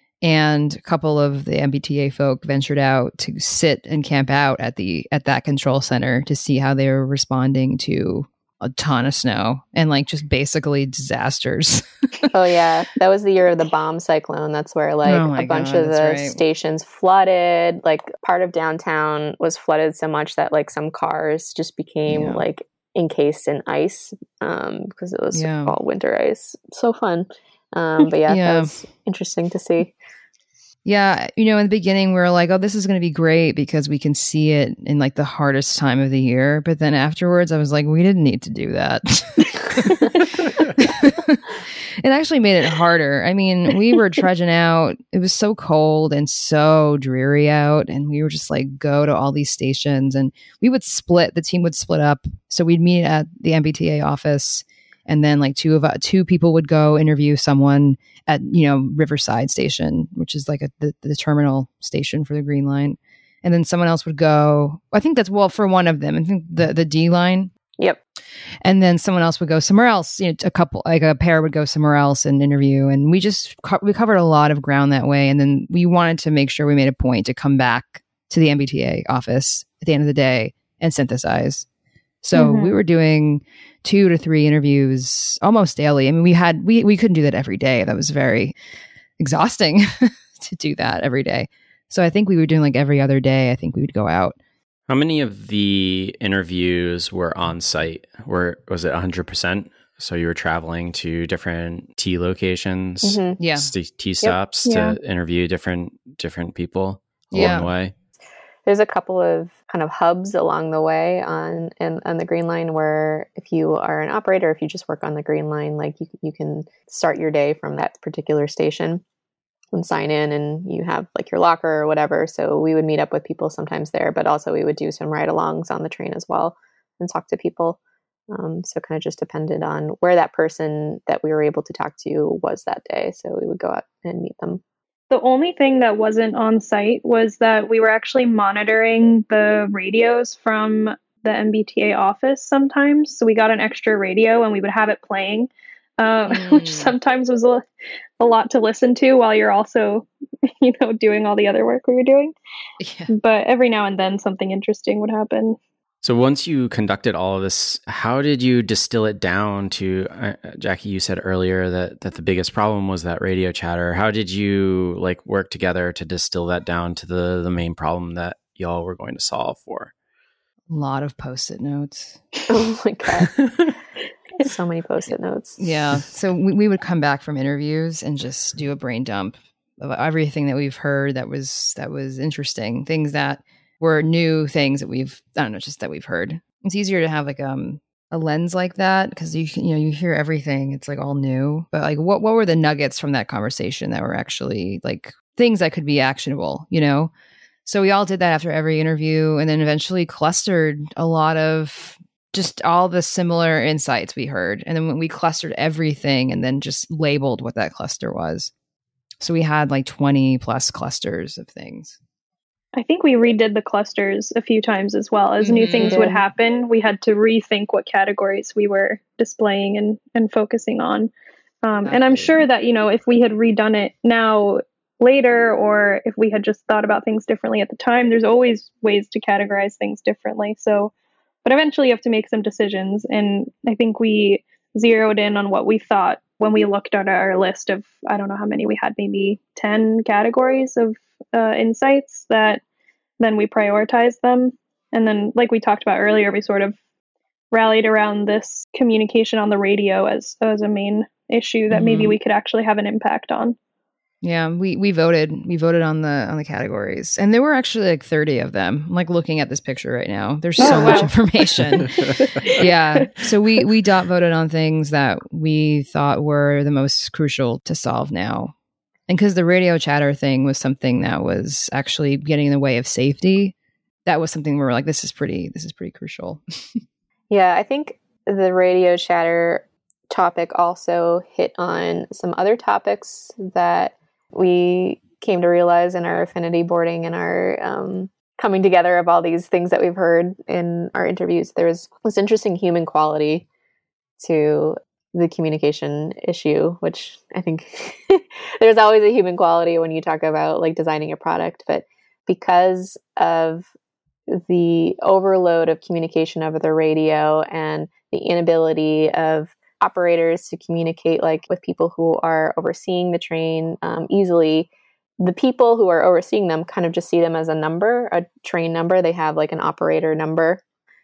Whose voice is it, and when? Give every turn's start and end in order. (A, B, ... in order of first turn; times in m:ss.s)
0:00.2-0:12.3 A
0:12.3-0:29.9 B
0:15.0-0:16.4 A
0:22.1-0:22.4 A
0:25.3-0:25.7 A
0:28.3-0:28.7 A
0:30.8-1:07.5 A
1:08.6-1:21.6 A
1:22.2-1:28.5 A
1:22.3-1:22.7 C
1:29.2-1:34.4 A
1:34.9-1:47.9 D
1:43.0-1:43.4 B
1:43.4-1:43.7 A
1:44.6-1:45.0 C
1:47.3-1:47.7 A
1:48.6-1:59.0 B
1:59.7-2:07.8 B
2:08.3-2:14.6 B
2:15.1-2:27.6 C
2:26.3-2:26.9 A
2:28.2-2:32.3 C
2:32.8-2:33.1 A
2:33.1-2:35.6 C
2:36.0-2:49.9 D
2:50.7-2:52.2 A
2:52.5-2:53.3 B
2:54.4-2:55.6 B
2:55.6-3:17.1 A
3:17.6-3:28.5 A
3:29.2-3:32.0 A
3:32.7-3:41.1 C
3:35.4-3:36.0 A
3:35.8-3:36.2 B
3:41.6-3:50.9 C
3:41.8-3:42.5 A
3:51.4-4:02.6 C
4:03.2-4:06.8 C
4:07.5-4:13.6 C
4:11.7-4:12.2 A
4:14.2-4:28.5 A
4:20.6-4:22.7 C
4:20.6-4:21.0 B
4:29.1-4:33.5 A
4:34.0-4:36.4 A
4:37.3-4:53.5 B
4:54.2-5:03.7 B
5:04.3-5:14.7 B
5:15.2-5:20.6 B